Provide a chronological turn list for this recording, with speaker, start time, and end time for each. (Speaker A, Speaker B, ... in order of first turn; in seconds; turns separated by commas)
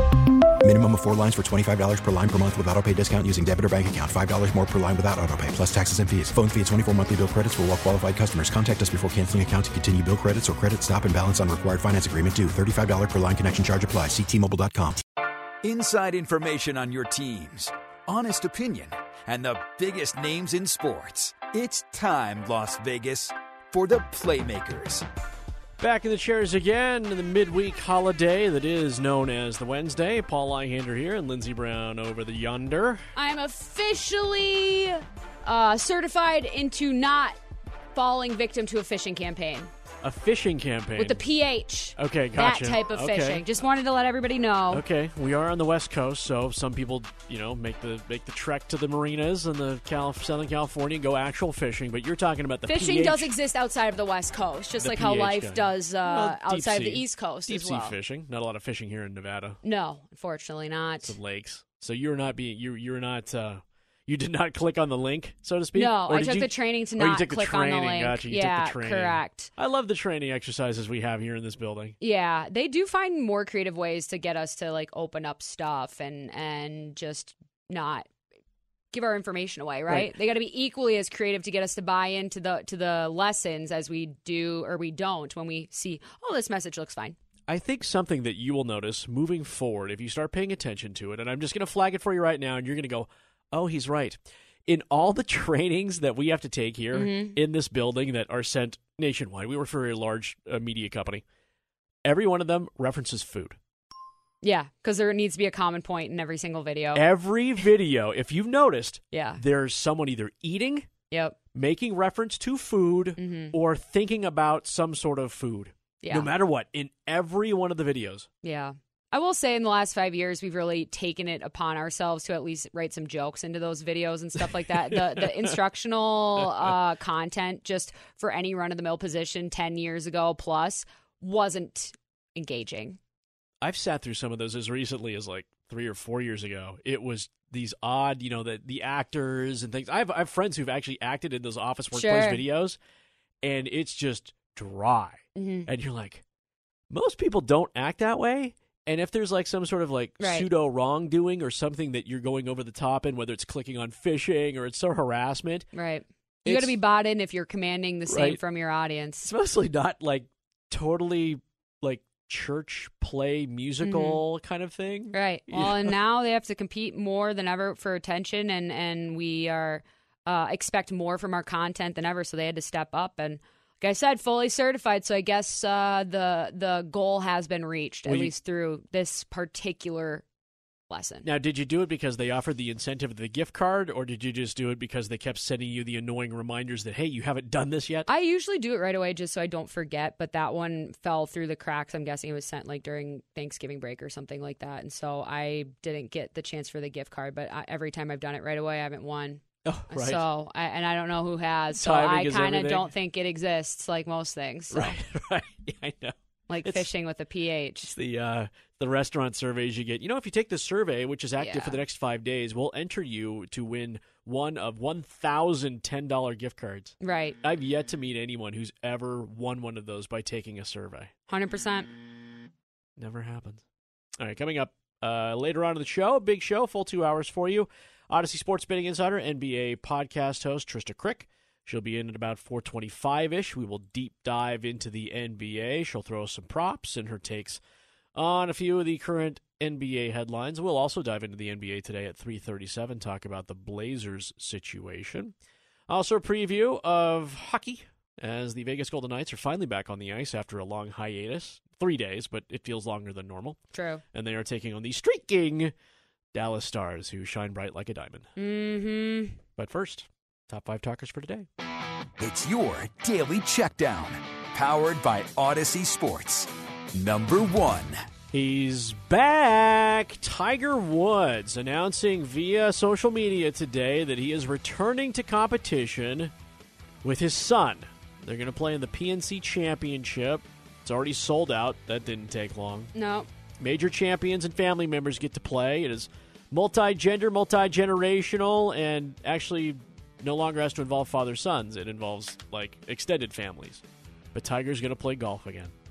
Speaker A: 0.6-15.0, Speaker B: 15.6-25.0, Speaker C: 25.8-33.0, Speaker D: 33.1-37.4, Speaker D: 37.9-39.7, Speaker C: 40.0-41.2, Speaker D: 41.0-44.8, Speaker C: 42.0-43.5, Speaker C: 44.7-53.3, Speaker D: 52.7-57.9, Speaker C: 54.8-59.6, Speaker D: 59.6-61.1, Speaker C: 61.0-72.0, Speaker D: 65.7-69.5, Speaker D: 72.0-78.1, Speaker D: 78.9-87.2, Speaker C: 79.9-80.1, Speaker C: 87.5-101.2, Speaker D: 96.9-97.4, Speaker C: 102.0-103.6, Speaker D: 104.4-107.0, Speaker C: 106.9-110.9, Speaker D: 109.1-109.4, Speaker D: 111.1-111.3, Speaker C: 111.5-118.3, Speaker D: 113.2-113.5, Speaker D: 116.0-116.3, Speaker D: 118.4-133.0, Speaker C: 124.7-125.5, Speaker C: 126.4-126.7, Speaker C: 133.6-142.8, Speaker D: 141.9-142.4, Speaker C: 143.4-146.2, Speaker D: 145.3-145.7, Speaker C: 146.9-155.7, Speaker D: 150.2-150.5, Speaker D: 155.7-159.3, Speaker C: 156.4-156.8, Speaker C: 158.1-158.4, Speaker C: 159.2-165.9, Speaker D: 163.8-164.2, Speaker D: 165.1-180.2, Speaker C: 178.1-178.3, Speaker D: 180.9-181.2, Speaker C: 181.2-188.1, Speaker D: 188.1-205.0, Speaker C: 199.6-200.2, Speaker C: 201.7-202.9, Speaker C: 204.7-206.1, Speaker D: 206.5-207.9, Speaker C: 207.9-221.1, Speaker D: 211.4-211.8, Speaker D: 217.0-217.3, Speaker D: 221.3-221.9, Speaker C: 223.0-223.6, Speaker C: 224.2-237.6, Speaker C: 238.1-245.3, Speaker C: 245.9-253.6, Speaker D: 253.7-254.0, Speaker C: 254.1-255.7, Speaker C: 256.3-258.3, Speaker D: 258.4-259.4, Speaker C: 259.6-261.5, Speaker B: 262.2-268.1, Speaker C: 268.3-276.3, Speaker C: 277.0-282.9, Speaker D: 282.9-283.3, Speaker C: 283.6-293.8, Speaker C: 294.3-295.7